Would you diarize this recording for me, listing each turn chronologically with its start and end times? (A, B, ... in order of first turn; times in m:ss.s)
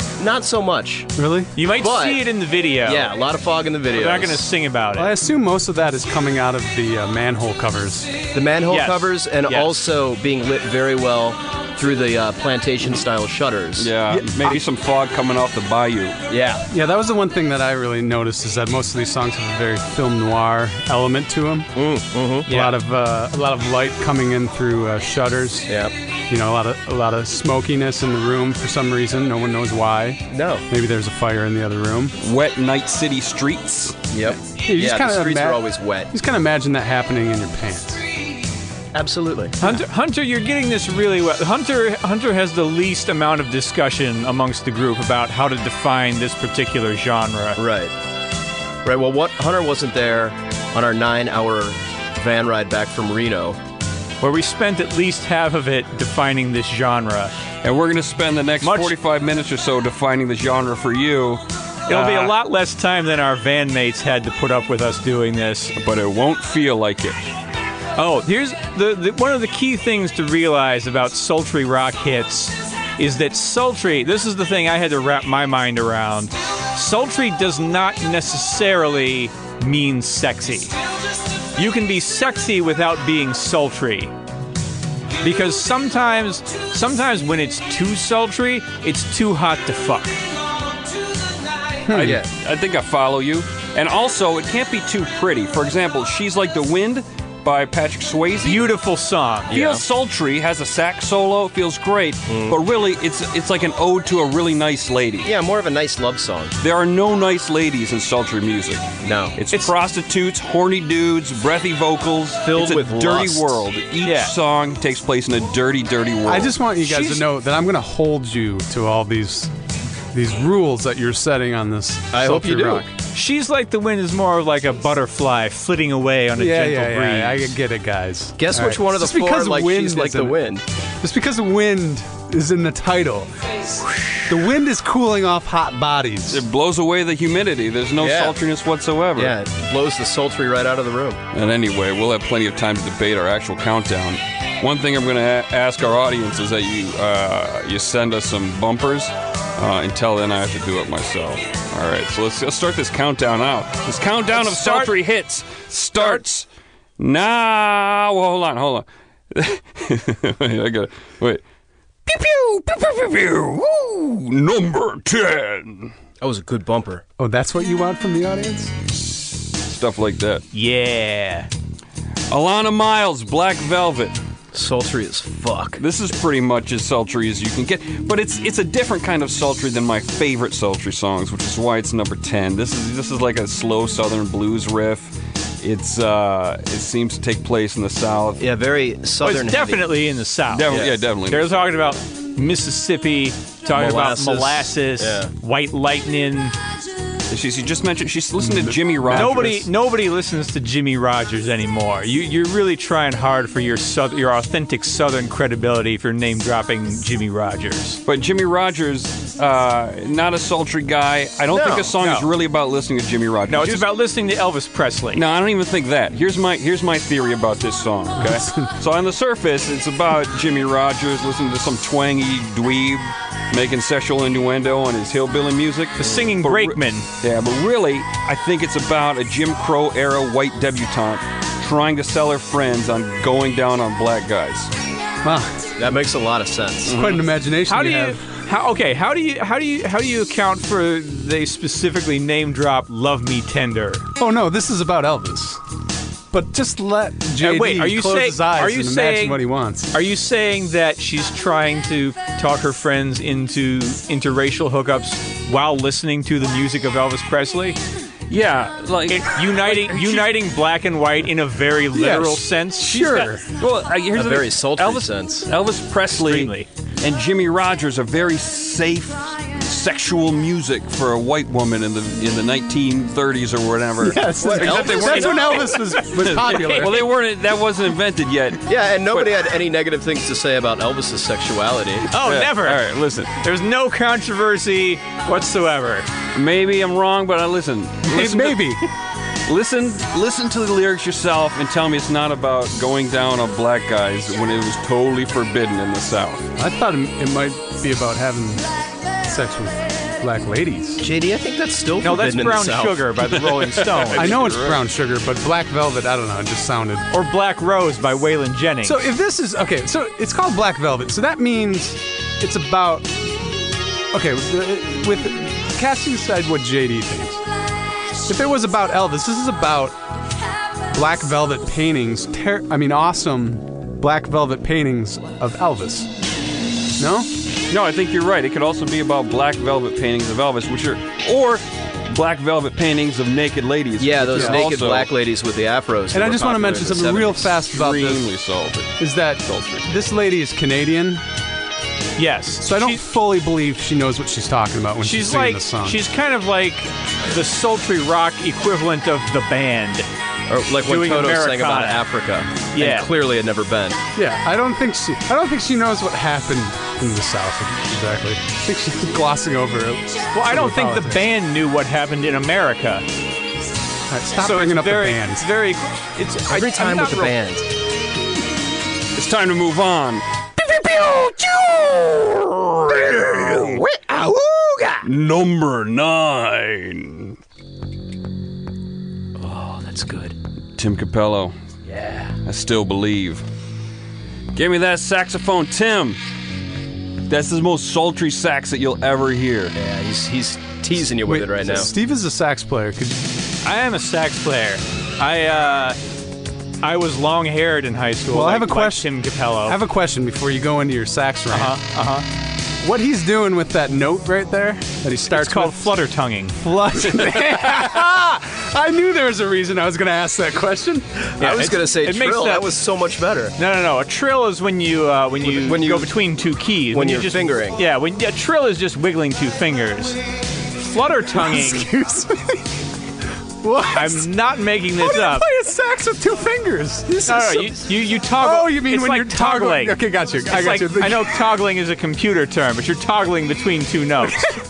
0:00.2-0:01.1 A
0:01.2-0:01.5 B
0:01.6-0:03.1 C
0:01.6-0:02.2 A
0:02.8-0:04.5 A
0:03.9-0:05.1 C
0:05.0-0:08.2 B
0:08.3-0:13.9 A
0:08.7-0:09.7 C
0:13.8-0:16.2 D
0:14.2-0:14.6 B
0:16.3-0:16.6 A
0:16.7-0:21.7 B
0:21.8-0:22.5 A
0:22.5-0:22.8 C
0:22.5-0:25.7 B
0:25.7-0:25.9 A
0:26.3-0:32.2 B
0:30.3-0:30.6 A
0:32.2-0:34.0 D
0:34.1-0:36.1 A
0:34.6-0:38.0 B
0:38.9-0:39.6 A
0:39.6-0:47.6 C
0:47.6-0:47.9 A
0:48.8-0:53.6 A
0:54.2-0:57.3 C
0:57.6-1:02.4 D
0:58.6-0:59.0 C
1:01.9-1:05.7 C
1:05.8-1:07.2 D
1:08.0-1:20.7 C
1:21.6-1:24.1 C
1:25.2-1:30.2 C
1:31.9-1:32.2 B
1:31.9-1:38.7 D
1:32.0-1:32.3 A
1:38.4-1:39.5 C
1:39.5-1:39.9 A
1:39.5-1:45.3 D
1:42.3-1:42.6 A
1:45.2-1:46.5 A
1:46.6-1:56.6 D
1:49.0-1:49.4 A
1:52.4-1:53.6 A
1:54.0-1:54.3 C
1:56.3-1:59.5 B
1:56.8-1:57.3 C
2:00.1-2:02.9 B
2:02.1-2:02.9 A
2:02.9-2:07.5 C
2:06.4-2:10.4 B
2:08.4-2:10.6 A
2:11.0-2:13.3 B
2:14.3-2:16.4 B
2:16.3-2:19.4 D
2:18.0-2:18.4 A
2:19.2-2:21.2 A
2:21.3-2:36.5 D
2:34.3-2:34.9 C
2:37.0-2:41.4 D
2:42.1-2:45.9 D
2:46.2-2:47.0 A
2:47.2-2:48.7 B
2:49.7-2:50.4 D
2:50.5-2:51.5 C
2:52.3-2:54.2 D
2:54.5-2:55.8 A
2:55.8-3:08.4 D
3:08.4-3:09.9 A
3:09.2-3:16.6 C
3:10.5-3:11.7 D
3:10.7-3:11.0 A
3:13.7-3:15.3 A
3:17.3-3:19.6 D
3:18.4-3:18.8 B
3:19.1-3:28.0 C
3:28.1-3:33.9 D
3:31.5-3:31.9 A
3:32.0-3:32.3 C
3:33.5-3:35.2 C
3:35.1-3:54.7 D
3:38.2-3:38.7 B
3:46.0-3:47.1 C
3:55.2-3:55.7 B
3:55.8-3:57.0 A
3:56.9-3:57.2 D
3:56.9-3:58.2 B
3:57.7-4:04.1 C
4:04.2-4:05.6 B
4:06.3-4:09.9 B
4:07.4-4:17.8 C
4:18.3-4:20.3 D
4:19.1-4:23.3 C
4:21.9-4:23.4 B
4:22.8-4:39.4 D
4:24.1-4:25.5 A
4:26.1-4:26.7 C
4:34.0-4:37.1 B
4:34.4-4:35.4 A
4:34.6-4:37.0 C
4:38.7-4:42.1 A
4:42.1-4:46.1 C
4:42.2-4:43.3 D
4:46.4-4:48.8 D
4:48.1-4:48.8 B
4:49.5-4:56.5 D
4:56.6-5:01.0 B
5:01.0-5:03.1 A
5:02.0-5:04.4 C
5:03.4-5:04.8 D
5:04.2-5:07.1 B
5:07.1-5:09.0 C
5:08.8-5:13.6 B
5:14.1-5:17.4 B
5:18.3-5:20.0 B
5:20.9-5:26.1 B
5:27.0-5:27.3 B
5:27.7-5:35.1 D
5:34.0-5:37.5 A
5:34.4-5:34.6 B
5:36.1-5:38.3 B
5:37.7-5:39.9 D
5:39.0-5:41.2 B
5:42.2-5:43.0 C
5:42.6-5:46.0 B
5:45.0-5:50.1 C
5:50.5-5:54.0 A
5:50.8-5:52.0 C
5:52.7-5:53.1 C
5:54.2-6:01.3 B
6:00.3-6:03.1 C
6:04.1-6:05.5 B
6:04.4-6:07.4 C
6:06.5-6:07.7 A
6:09.2-6:13.8 D
6:12.9-6:15.1 A
6:15.0-6:17.4 D
6:19.4-6:20.4 A
6:20.8-6:21.6 D
6:21.9-6:22.4 A
6:22.4-6:23.4 D
6:24.6-6:26.2 D
6:27.3-6:29.7 D
6:29.8-6:31.9 A
6:31.2-6:33.3 B
6:33.6-6:36.0 C
6:36.8-6:39.8 C
6:38.3-6:41.8 B
6:41.5-6:42.2 C
6:42.8-6:45.9 B
6:45.3-6:46.6 C
6:46.6-6:51.3 B
6:47.4-6:47.8 D
6:51.4-6:53.6 A
6:51.4-6:52.7 C
6:53.6-7:00.2 C
6:55.4-6:56.2 A
6:56.9-6:57.8 A
7:00.7-7:01.9 C
7:01.3-7:02.8 B
7:03.6-7:04.3 B
7:03.9-7:05.5 C
7:05.0-7:11.5 B
7:07.2-7:14.6 C